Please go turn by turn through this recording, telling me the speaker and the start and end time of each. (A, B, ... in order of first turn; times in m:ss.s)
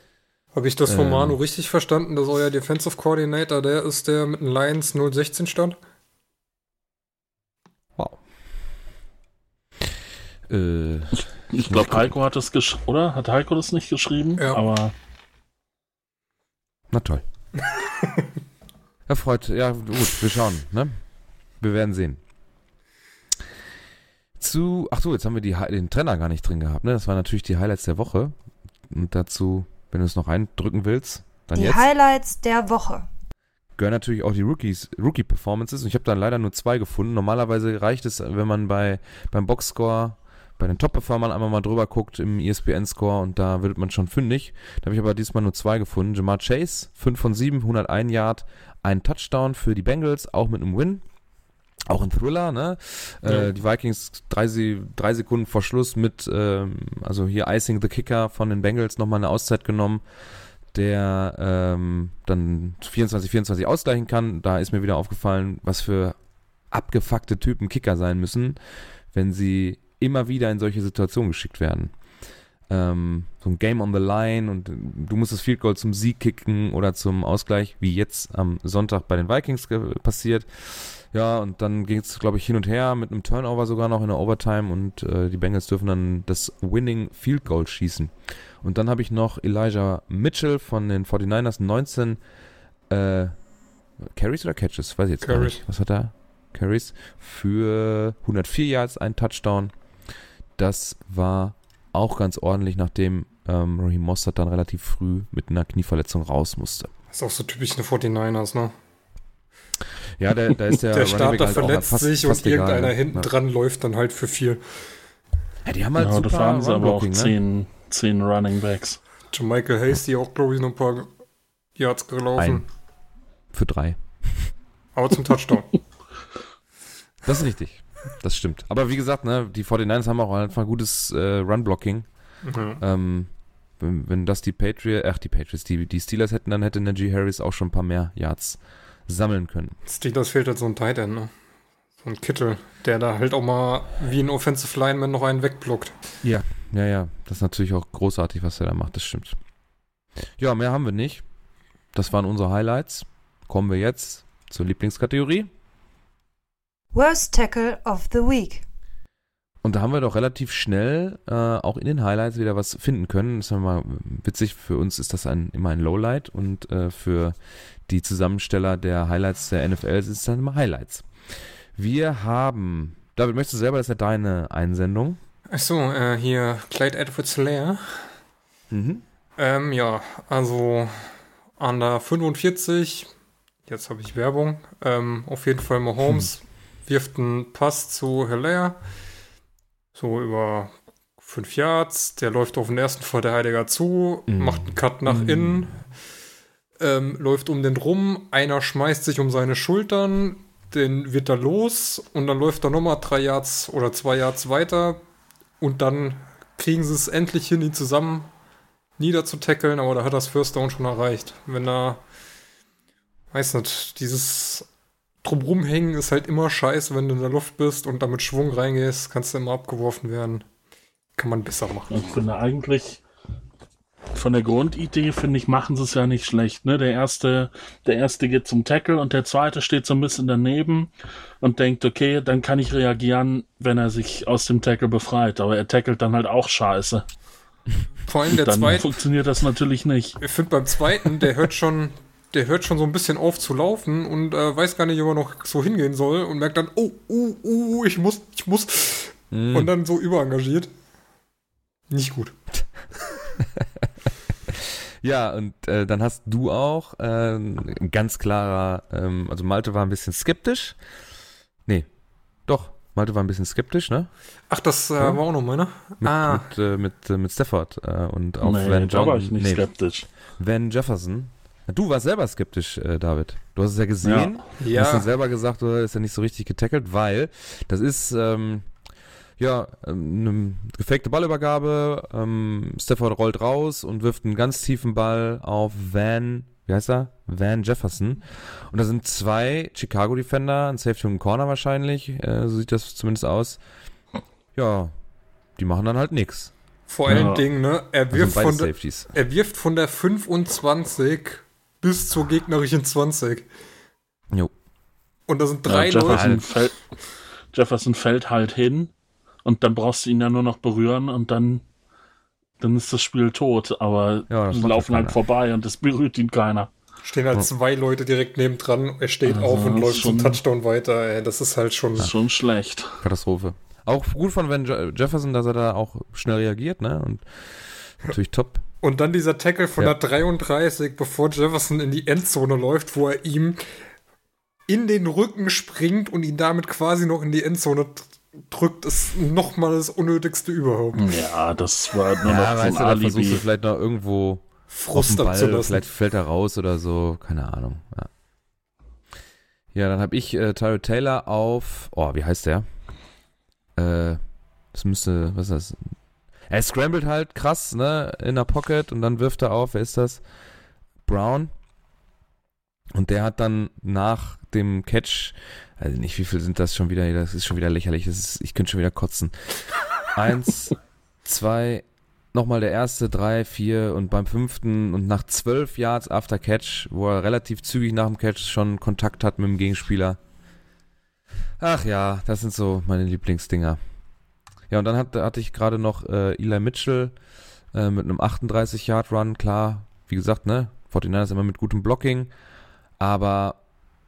0:00.5-0:05.8 A
0:00.9-0:01.4 B
0:10.5-0:12.1 B
0:11.5-0:15.0 C
0:16.9-0:17.2 B
0:18.0-0:18.3 A
0:19.1-0:20.9 B
0:21.6-0:22.2 B
0:24.4-0:28.4 B
0:28.9-0:31.9 B
0:31.6-0:33.1 D
0:33.8-0:51.0 B
0:51.9-1:00.0 B
1:00.7-1:06.2 B
1:06.7-1:08.6 B
1:09.1-1:11.9 B
1:12.7-1:32.2 B
1:32.9-1:33.4 B
1:34.0-1:39.7 B
1:35.2-1:35.6 A
1:40.6-1:46.9 B
1:47.1-1:48.7 A
1:50.2-1:53.3 B
1:50.9-1:54.6 A
1:55.6-1:57.4 B
1:56.0-1:59.0 C
1:59.3-2:01.1 A
2:01.8-2:02.6 A
2:02.4-2:02.6 B
2:03.5-2:04.5 B
2:05.0-2:05.7 A
2:07.2-2:12.1 B
2:12.4-2:12.8 A
2:12.8-2:19.8 B
2:19.9-2:21.3 A
2:22.0-2:26.0 A
2:26.2-2:29.4 B
2:30.4-2:31.2 B
2:31.9-2:35.5 B
2:36.9-2:38.6 D
2:39.6-2:47.4 B
2:47.9-2:51.1 B
2:51.8-2:55.2 B
2:55.5-2:58.1 A
2:58.7-2:59.0 B
2:59.4-3:03.1 A
3:03.7-3:08.8 A
3:10.0-3:15.8 A
3:14.3-3:15.7 B
3:16.8-3:25.0 A
3:25.6-3:28.3 A
3:29.0-3:32.0 A
3:33.3-3:34.7 A
3:35.2-3:40.4 A
3:41.2-3:42.1 A
3:41.9-3:43.0 C
3:44.1-3:50.9 C
3:51.4-3:57.0 C
3:58.0-3:58.9 A
3:58.3-4:00.2 C
4:00.2-4:10.7 A
4:09.3-4:09.7 B
4:11.9-4:12.4 A
4:13.4-4:13.9 B
4:14.5-4:20.8 B
4:22.5-4:24.1 B
4:24.5-4:26.5 A
4:26.0-4:29.6 B
4:28.4-4:30.1 C
4:30.3-4:38.7 B
4:34.0-4:34.3 C
4:34.6-4:35.1 A
4:39.4-4:53.6 B
4:54.6-4:54.9 B
4:55.6-4:56.5 B
4:56.9-5:03.5 A
4:57.1-4:57.3 B
4:57.1-4:57.4 C
4:58.1-4:59.1 B
5:05.3-5:06.3 A
5:05.7-5:06.8 C
5:06.1-5:06.4 B
5:07.5-5:08.9 C
5:09.4-5:11.6 C
5:12.6-5:16.7 C
5:14.3-5:15.2 B
5:17.0-5:22.1 A
5:19.3-5:20.4 C
5:22.0-5:23.0 C
5:23.0-5:28.6 B
5:28.8-5:33.6 A
5:34.7-5:41.0 A
5:40.9-5:43.4 C
5:42.2-5:48.1 B
5:44.7-5:45.8 A
5:49.7-5:52.7 B
5:53.8-5:54.2 B
5:54.7-5:55.9 B
5:56.5-6:00.2 B
6:01.1-6:01.5 B
6:03.0-6:09.3 B
6:10.1-6:20.2 B
6:21.6-6:23.8 B
6:24.7-6:27.2 B
6:27.7-6:32.3 B
6:33.0-6:33.6 B